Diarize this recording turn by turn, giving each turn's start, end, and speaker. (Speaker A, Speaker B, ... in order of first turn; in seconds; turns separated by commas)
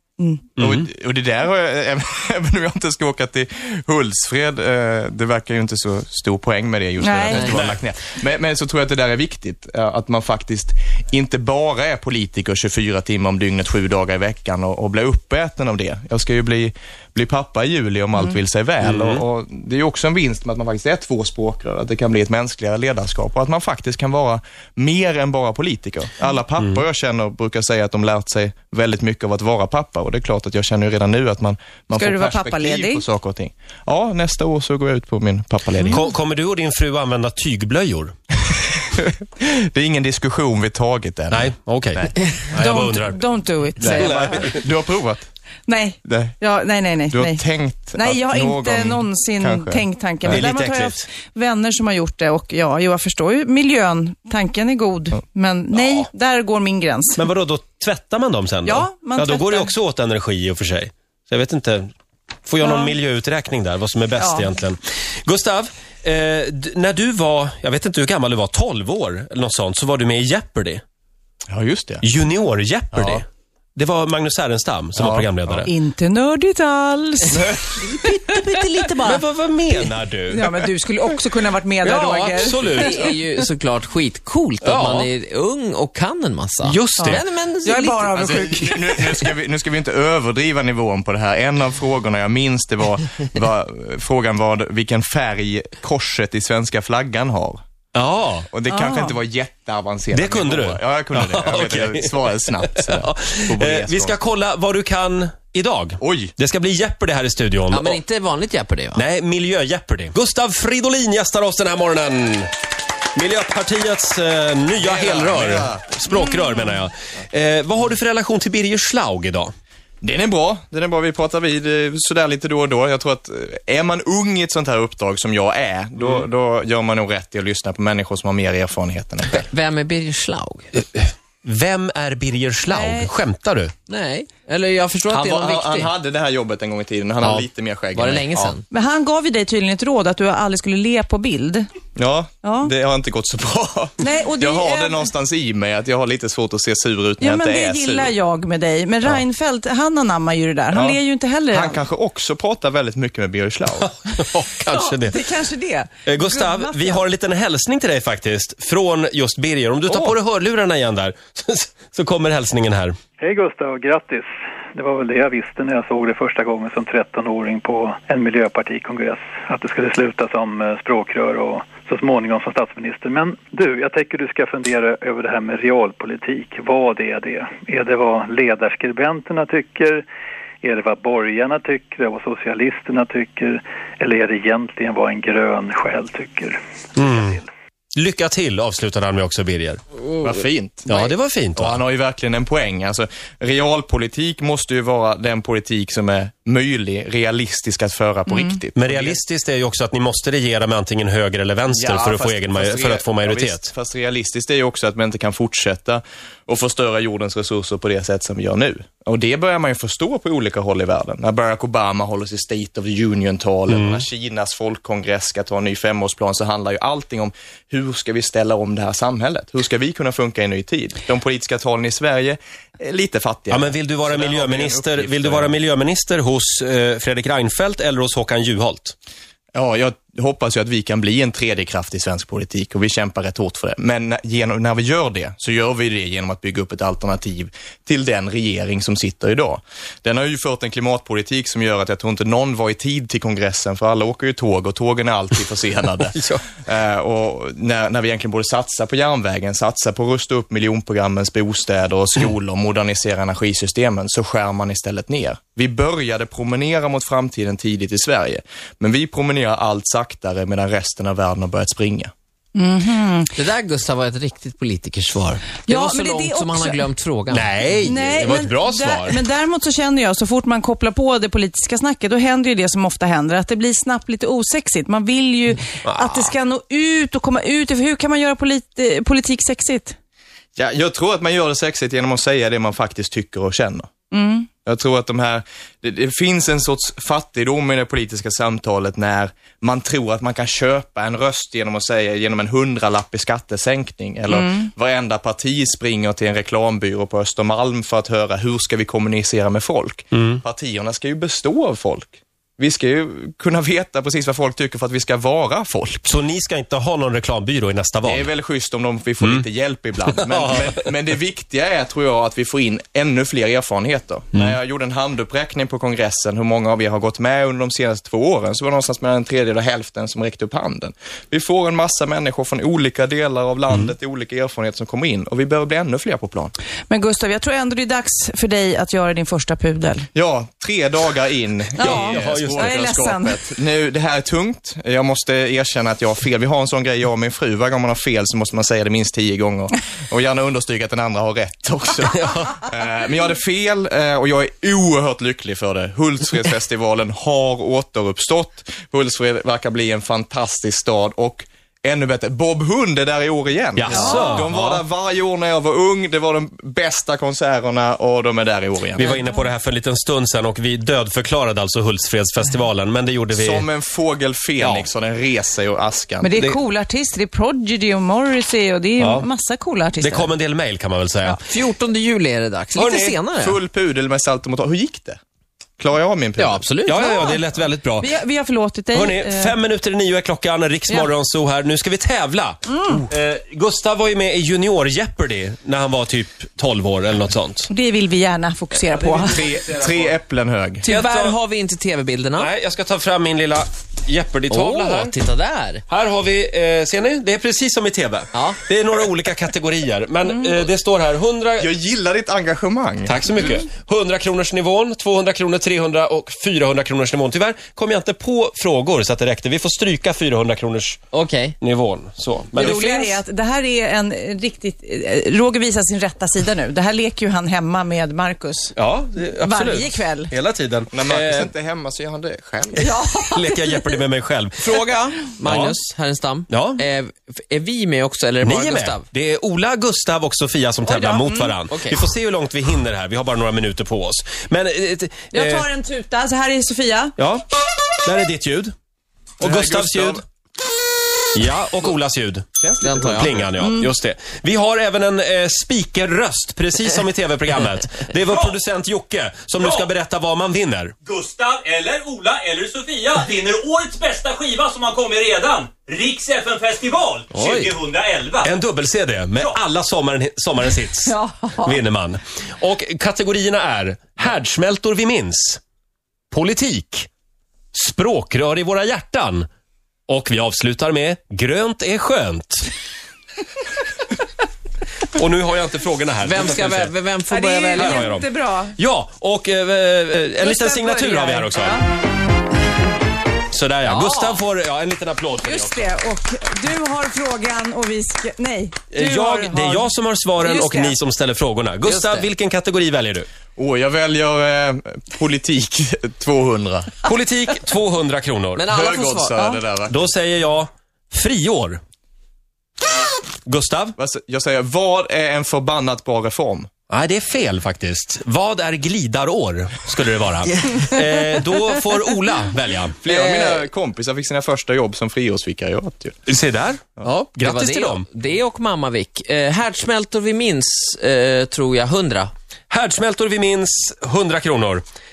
Speaker A: 0.2-0.5, Speaker B: 0.6-36.0, Speaker C: 0.6-0.8, Speaker A: 7.0-7.5, Speaker C: 7.4-7.8, Speaker C: 18.8-19.2, Speaker A: 32.0-33.0, Speaker C: 35.8-38.1, Speaker B: 38.9-42.9, Speaker C: 41.3-43.2, Speaker A: 42.6-44.2, Speaker C: 43.8-44.6, Speaker B: 43.8-45.3, Speaker A: 45.7-47.4, Speaker B: 46.0-46.4, Speaker B: 47.1-50.5, Speaker A: 48.0-57.2, Speaker C: 50.3-51.1, Speaker C: 55.8-56.1, Speaker C: 57.2-61.9, Speaker A: 58.6-59.7, Speaker C: 62.5-70.8, Speaker A: 62.6-62.9, Speaker A: 64.2-64.5, Speaker B: 71.5-72.0, Speaker C: 72.0-75.7, Speaker B: 72.9-73.2, Speaker B: 75.0-75.7, Speaker A: 75.7-77.4, Speaker B: 77.3-77.8, Speaker D: 77.8-78.9, Speaker A: 78.5-79.2, Speaker C: 79.0-80.5, Speaker A: 80.3-83.1, Speaker C: 81.8-83.1, Speaker D: 82.5-88.2, Speaker C: 84.6-85.1, Speaker C: 86.6-87.2, Speaker A: 87.0-89.2, Speaker B: 88.2-97.6, Speaker C: 97.9-98.5, Speaker B: 98.5-104.2, Speaker A: 98.7-99.1, Speaker C: 100.1-108.0, Speaker B: 106.0-106.3, Speaker D: 107.7-109.0, Speaker C: 109.0-112.5, Speaker C: 113.1-119.5, Speaker B: 114.8-115.9, Speaker A: 116.1-116.6, Speaker B: 120.0-129.4, Speaker D: 129.3-130.7, Speaker C: 130.8-133.7, Speaker A: 132.7-133.1, Speaker D: 133.9-135.9, Speaker B: 135.1-138.6, Speaker D: 137.2-138.7, Speaker A: 138.7-141.7, Speaker B: 142.0-148.1, Speaker A: 142.4-142.7, Speaker A: 144.0-145.0, Speaker A: 147.2-151.8, Speaker B: 150.7-151.0, Speaker B: 151.5-153.9, Speaker C: 153.8-155.2, Speaker A: 154.7-157.0, Speaker C: 156.1-163.0, Speaker B: 159.9-160.2, Speaker E: 163.2-180.1, Speaker E: 180.6-187.4, Speaker C: 187.0-187.4, Speaker C: 187.9-189.8, Speaker B: 190.2-199.2, Speaker C: 190.9-191.8, Speaker C: 198.8-203.7, Speaker B: 201.7-225.6, Speaker C: 213.7-214.1, Speaker C: 223.5-228.9, Speaker B: 229.5-262.1, Speaker A: 262.6-263.4, Speaker D: 263.4-267.5, Speaker A: 265.7-266.9, Speaker C: 267.3-269.2, Speaker A: 267.8-280.0, Speaker C: 275.8-276.3, Speaker B: 280.6-283.9, Speaker A: 284.1-284.5, Speaker B: 284.6-306.1, Speaker A: 294.3-294.7, Speaker C: 306.1-308.3, Speaker B: 308.0-326.5, Speaker C: 310.1-310.8, Speaker A: 326.9-330.1, Speaker B: 330.1-359.2, Speaker A: 331.8-333.5, Speaker C: 331.8-332.8, Speaker C: 353.8-354.8, Speaker A: 354.0-354.4, Speaker C: 359.0-363.7, Speaker B: 363.3-366.4, Speaker C: 364.6-364.9, Speaker A: 366.2-370.3, Speaker C: 369.0-369.3, Speaker C: 370.0-371.4, Speaker D: 371.4-373.6, Speaker C: 372.8-373.2, Speaker B: 373.3-375.2, Speaker B: 375.8-376.7, Speaker D: 376.4-377.2, Speaker C: 376.9-378.1, Speaker A: 377.1-377.4, Speaker A: 378.0-379.6, Speaker C: 378.9-387.7, Speaker A: 382.7-383.1, Speaker A: 387.7-389.4, Speaker C: 389.0-389.9, Speaker B: 389.3-390.9, Speaker C: 390.8-391.4, Speaker D: 390.9-392.5, Speaker C: 392.4-395.1, Speaker D: 394.5-395.8, Speaker C: 395.9-401.7, Speaker B: 401.6-403.2, Speaker C: 403.1-411.0, Speaker D: 411.1-411.6, Speaker C: 411.6-413.2, Speaker A: 412.6-418.8, Speaker C: 418.8-421.5, Speaker A: 419.4-420.3, Speaker B: 420.9-422.9, Speaker A: 422.8-423.8, Speaker C: 423.3-424.8, Speaker D: 424.6-429.1, Speaker C: 425.4-425.8, Speaker C: 426.5-426.8, Speaker C: 428.4-435.7, Speaker A: 430.9-431.6, Speaker D: 431.7-432.1, Speaker A: 435.3-437.1, Speaker C: 438.0-438.7, Speaker C: 439.4-440.2, Speaker B: 439.4-440.2, Speaker C: 441.3-442.5, Speaker B: 442.6-443.4, Speaker D: 442.8-443.5, Speaker C: 443.2-450.9, Speaker A: 443.6-443.9, Speaker F: 448.3-448.6, Speaker F: 449.6-449.9, Speaker F: 451.0-458.6, Speaker D: 457.3-457.8, Speaker C: 458.4-465.6, Speaker A: 461.1-461.8, Speaker C: 466.3-467.1, Speaker C: 467.7-469.5, Speaker C: 470.1-472.7, Speaker C: 475.1-476.9, Speaker D: 476.2-478.1, Speaker A: 477.3-478.8, Speaker C: 477.8-481.8, Speaker A: 480.4-481.8, Speaker C: 483.5-485.9, Speaker D: 483.8-484.4, Speaker A: 485.4-491.0, Speaker C: 488.9-493.3, Speaker D: 491.9-492.3, Speaker B: 493.6-496.9, Speaker C: 497.1-498.6, Speaker D: 498.6-499.4, Speaker B: 498.7-500.1, Speaker C: 499.9-501.8, Speaker C: 503.5-503.9, Speaker B: 504.0-506.7, Speaker C: 506.9-513.0, Speaker B: 513.0-516.2, Speaker D: 513.1-513.7, Speaker C: 516.3-518.1, Speaker D: 517.4-522.3, Speaker C: 522.7-524.9